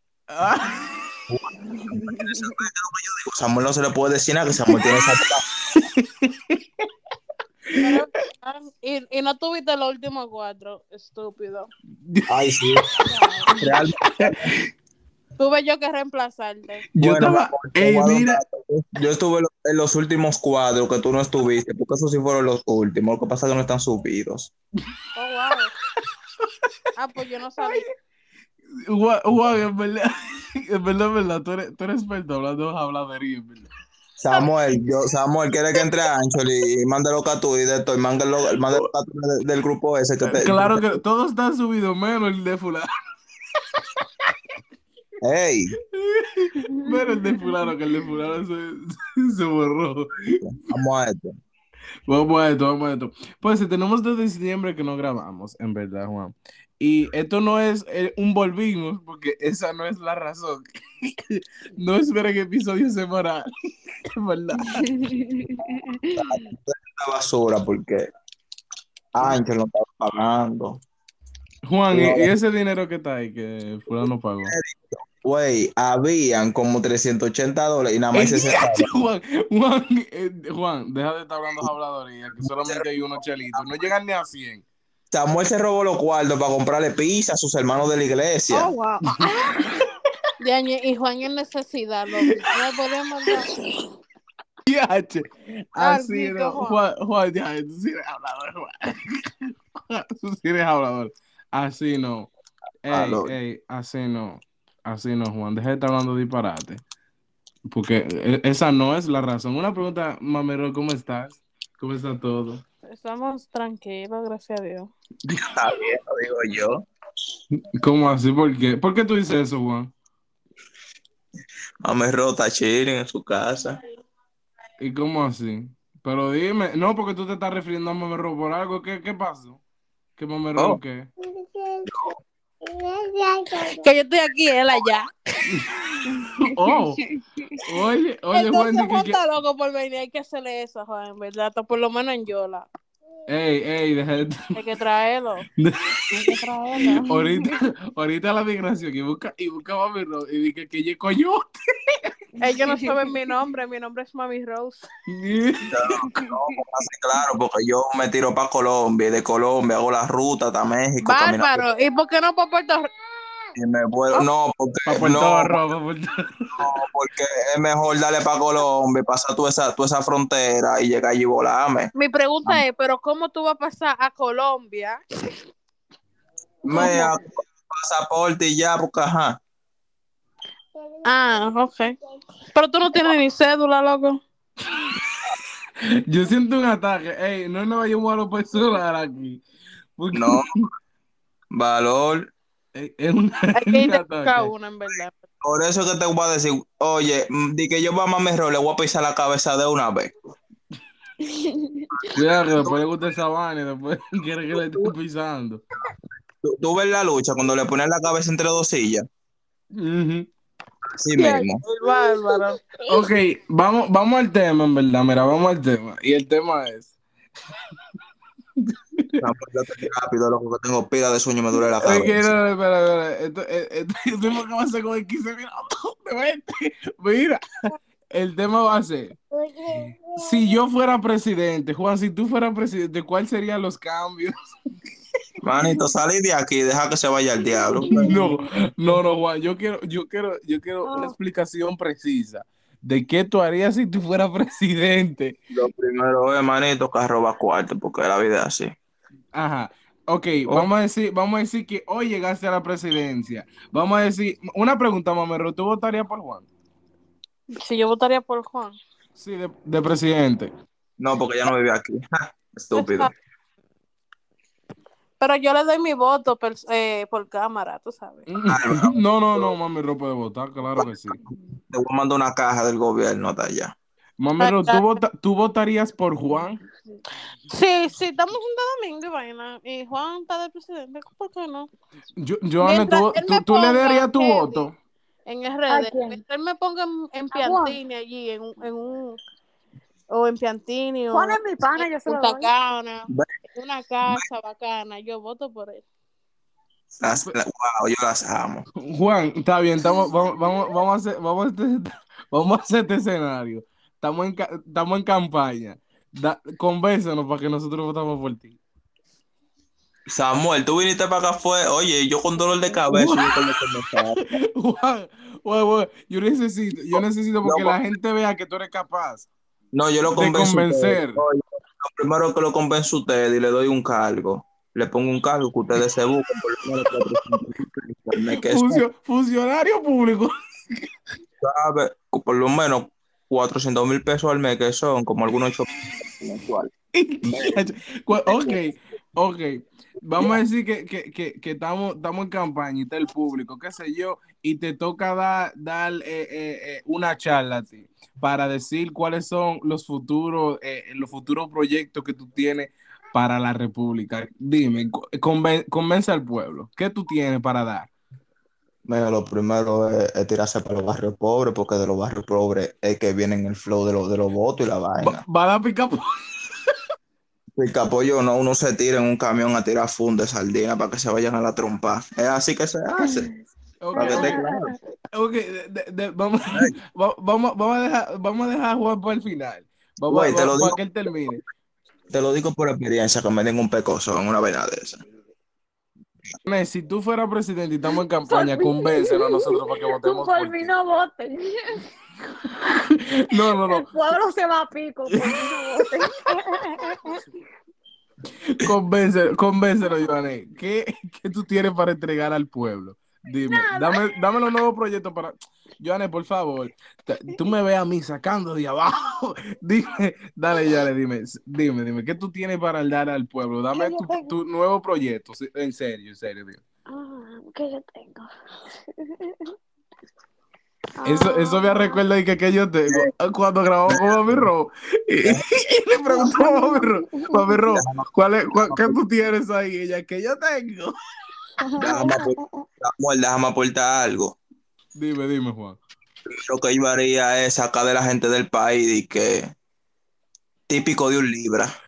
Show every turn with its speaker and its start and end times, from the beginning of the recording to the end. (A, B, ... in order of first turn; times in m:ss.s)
0:00.3-0:01.1 A
0:01.3-0:05.4 B
0:01.8-0:02.5 C
0:05.7-0:06.8 A
0:07.7-0:08.0 A
0:07.8-0:11.7 D
0:12.0-0:12.7 A
0:12.3-0:12.8 B
0:13.0-0:13.7 C
0:13.6-0:14.5 B
0:14.0-0:14.6 A
0:15.4-0:16.8 D
0:16.9-0:18.4 A
0:17.0-0:24.5 B
0:25.1-0:25.7 D
0:26.4-0:26.7 A
0:27.0-0:27.9 D
0:27.6-0:27.9 A
0:28.9-0:33.7 A
0:34.2-0:41.0 B
0:40.2-0:42.9 A
0:43.7-0:44.3 A
0:45.2-0:45.8 B
0:45.9-0:50.4 A
0:46.8-0:47.7 C
0:50.4-0:51.4 B
0:52.1-1:03.5 A
1:04.0-1:04.9 A
1:04.6-1:06.4 C
1:06.1-1:08.1 B
1:09.1-1:10.8 B
1:11.7-1:14.5 A
1:11.9-1:12.3 B
1:14.0-1:18.9 B
1:18.1-1:24.6 A
1:22.4-1:23.6 B
1:25.1-1:28.7 B
1:28.5-1:29.7 C
1:29.1-1:29.9 A
1:30.4-1:33.5 D
1:34.7-1:42.3 A
1:35.8-1:36.8 D
1:42.8-1:46.8 A
1:42.9-1:43.3 B
1:47.7-1:52.6 A
1:52.9-1:54.9 D
1:55.3-1:55.5 A
1:55.5-1:56.8 B
1:57.6-1:59.9 A
2:01.8-2:03.8 B
2:04.8-2:09.6 A
2:10.2-2:11.1 A
2:11.2-2:11.9 C
2:11.9-2:12.2 B
2:12.6-2:13.9 C
2:13.8-2:15.1 D
2:15.5-2:15.8 A
2:15.8-2:17.6 C
2:16.4-2:17.0 A
2:17.6-2:19.2 A
2:18.3-2:22.6 D
2:23.3-2:24.5 A
2:24.5-2:25.4 D
2:25.6-2:26.1 A
2:26.1-2:27.5 C
2:27.0-2:32.1 A
2:32.4-2:34.8 D
2:32.4-2:33.1 C
2:35.1-2:36.2 A
2:35.7-2:41.6 B
2:36.2-2:36.6 C
2:41.0-2:42.9 D
2:43.5-2:45.6 B
2:44.8-2:46.6 A
2:46.6-2:51.9 B
2:51.9-2:55.0 D
2:56.6-2:59.4 B
2:56.7-2:57.1 D
2:56.8-2:57.0 C
3:01.0-3:01.9 D
3:02.5-3:04.2 D
3:06.1-3:09.4 A
3:10.0-3:10.6 A
3:10.1-3:10.6 B
3:11.5-3:12.3 B
3:12.7-3:14.5 A
3:13.5-3:15.2 D
3:15.4-3:20.1 B
3:21.2-3:21.9 C
3:22.0-3:22.8 B
3:22.1-3:25.6 A
3:24.5-3:24.9 B
3:26.4-3:29.1 B
3:29.7-3:30.3 A
3:30.9-3:31.6 B
3:31.1-3:32.6 D
3:31.8-3:32.4 C
3:32.9-3:36.9 A
3:38.6-3:39.2 A
3:39.2-3:42.3 B
3:41.8-3:49.2 A
3:49.3-3:50.2 D
3:50.2-3:54.3 A
3:55.4-3:58.2 B
3:57.4-3:58.3 C
3:58.0-4:05.3 A
4:00.8-4:01.1 C
4:05.5-4:08.7 B
4:09.3-4:16.5 A
4:17.5-4:18.7 D
4:19.2-4:20.5 A
4:21.0-4:23.1 B
4:22.7-4:23.1 D
4:25.2-4:28.3 D
4:28.3-4:31.2 A
4:28.5-4:29.6 B
4:31.7-4:33.7 B
4:34.2-4:36.6 A
4:34.4-4:35.0 D
4:37.5-4:41.7 D
4:42.2-4:44.7 A
4:42.6-4:44.7 D
4:45.3-4:49.2 D
4:45.7-4:46.2 C
4:47.3-4:47.8 C
4:50.1-4:55.8 D
4:51.1-4:52.5 C
4:57.0-4:58.6 B
4:58.8-5:08.6 A
5:10.1-5:14.2 B
5:12.9-5:13.4 A
5:14.2-5:19.3 A
5:16.9-5:17.8 B
5:19.7-5:28.8 B
5:20.1-5:21.2 A
5:28.3-5:30.9 A
5:31.4-5:36.7 B
5:36.9-5:57.9 A
5:37.2-5:37.6 B
5:38.1-5:38.6 B
5:58.9-6:05.2 B
6:05.0-6:06.5 A
6:07.6-6:13.3 B
6:12.9-6:14.7 C
6:13.8-6:14.4 A
6:14.0-6:14.7 B
6:15.1-6:21.4 A
6:20.1-6:21.4 B
6:22.1-6:25.0 B
6:26.4-6:30.7 A
6:28.3-6:29.4 C
6:30.0-6:31.8 C
6:32.6-6:33.8 A
6:33.3-6:37.2 C
6:38.5-6:56.6 A
6:43.4-6:44.0 C
6:53.7-6:54.3 C
6:56.9-6:59.5 C
7:01.0-7:02.0 C
7:01.0-7:10.9 A
7:03.9-7:04.5 B
7:06.1-7:07.6 C
7:07.7-7:09.0 B
7:11.6-7:12.6 C
7:11.8-7:14.4 B
7:14.9-7:15.8 A
7:16.3-7:19.5 B
7:20.7-7:21.7 B